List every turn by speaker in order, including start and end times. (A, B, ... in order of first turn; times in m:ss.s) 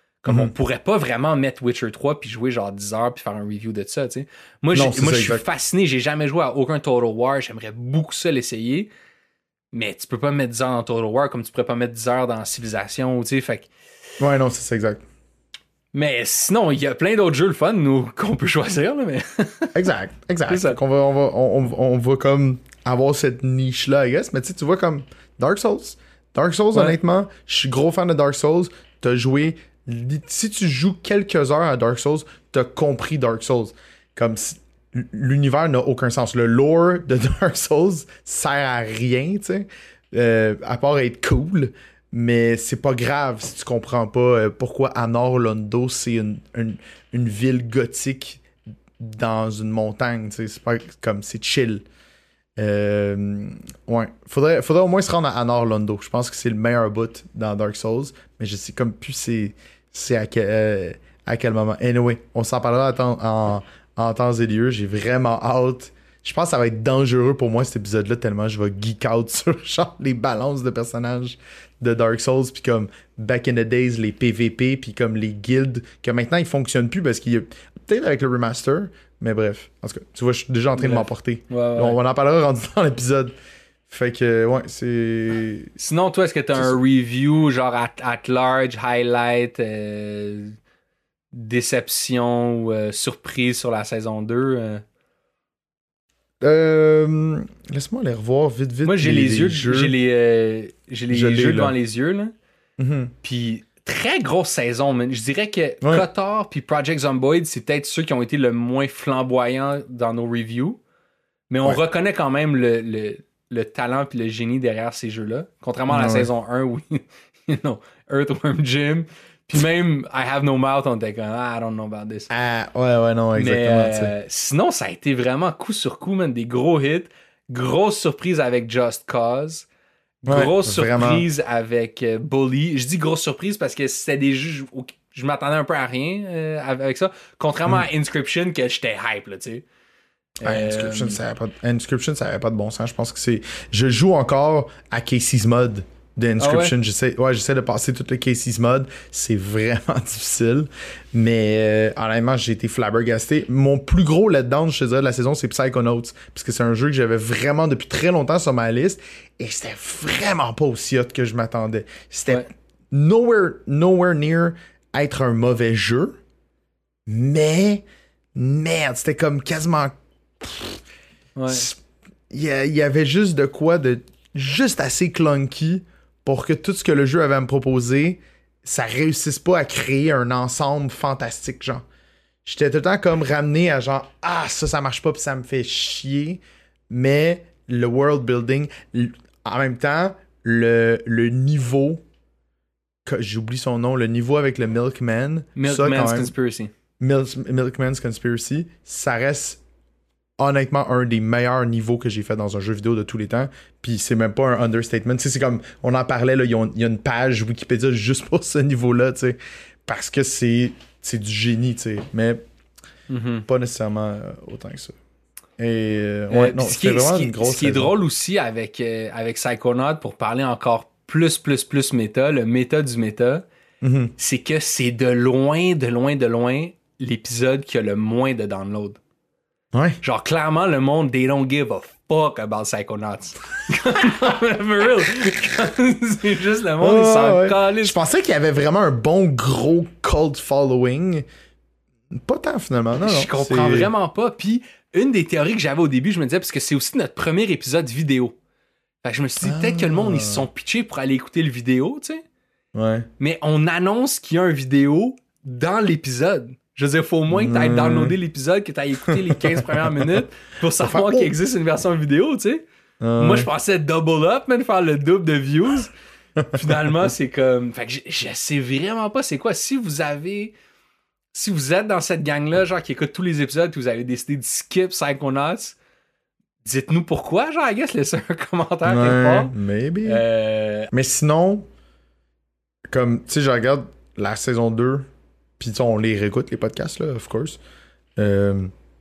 0:00.2-0:08.9 A
0:00.3-0:00.5 B
0:04.7-0:05.4 B
0:09.7-0:13.7 A
0:14.2-0:15.0 B
0:15.9-0:19.8 A
0:19.8-0:48.4 B
0:20.5-0:20.8 A
0:49.0-0:51.8 B
0:52.6-1:23.3 B
1:20.8-1:22.0 A
1:23.9-1:25.7 B
1:25.8-1:30.6 A
1:31.3-1:34.8 A
1:36.4-1:40.0 B
1:38.8-1:42.3 A
1:41.1-1:41.7 B
1:42.8-1:43.1 B
1:43.2-1:50.8 A
1:51.5-2:02.3 A
1:55.9-1:56.3 B
2:02.3-2:04.1 B
2:03.4-2:09.7 A
2:10.2-2:19.6 A
2:10.3-2:11.2 B
2:20.4-2:21.2 A
2:20.4-2:46.2 B
2:26.4-2:26.7 A
2:47.1-2:50.8 B
2:51.4-2:51.7 A
2:51.5-2:51.8 B
2:52.3-3:01.8 B
3:02.4-3:12.0 B
3:13.0-3:16.3 B
3:15.6-3:16.7 A
3:17.0-3:19.6 B
3:20.4-3:32.4 B
3:33.1-3:33.4 A
3:33.5-3:35.0 B
3:35.6-3:37.9 B
3:36.3-3:43.4 A
3:43.8-3:44.1 B
3:44.2-3:49.0 A
3:49.7-3:50.0 B
3:50.0-3:58.0 A
3:56.8-4:01.2 B
4:02.2-4:03.9 B
4:03.0-4:08.4 A
4:09.0-4:12.2 A
4:09.4-4:10.5 B
4:12.8-4:13.1 B
4:13.2-4:22.6 A
4:17.3-4:18.2 B
4:19.1-4:20.1 B
4:20.8-4:21.4 B
4:23.0-4:23.5 B
4:23.2-4:25.9 A
4:26.4-4:27.0 B
4:26.5-4:30.5 A
4:31.3-4:35.8 A
4:36.6-4:39.5 A
4:38.8-4:40.2 B
4:40.0-4:40.9 A
4:40.9-4:41.7 B
4:42.9-4:45.1 B
4:45.6-4:47.6 B
4:48.2-4:48.7 B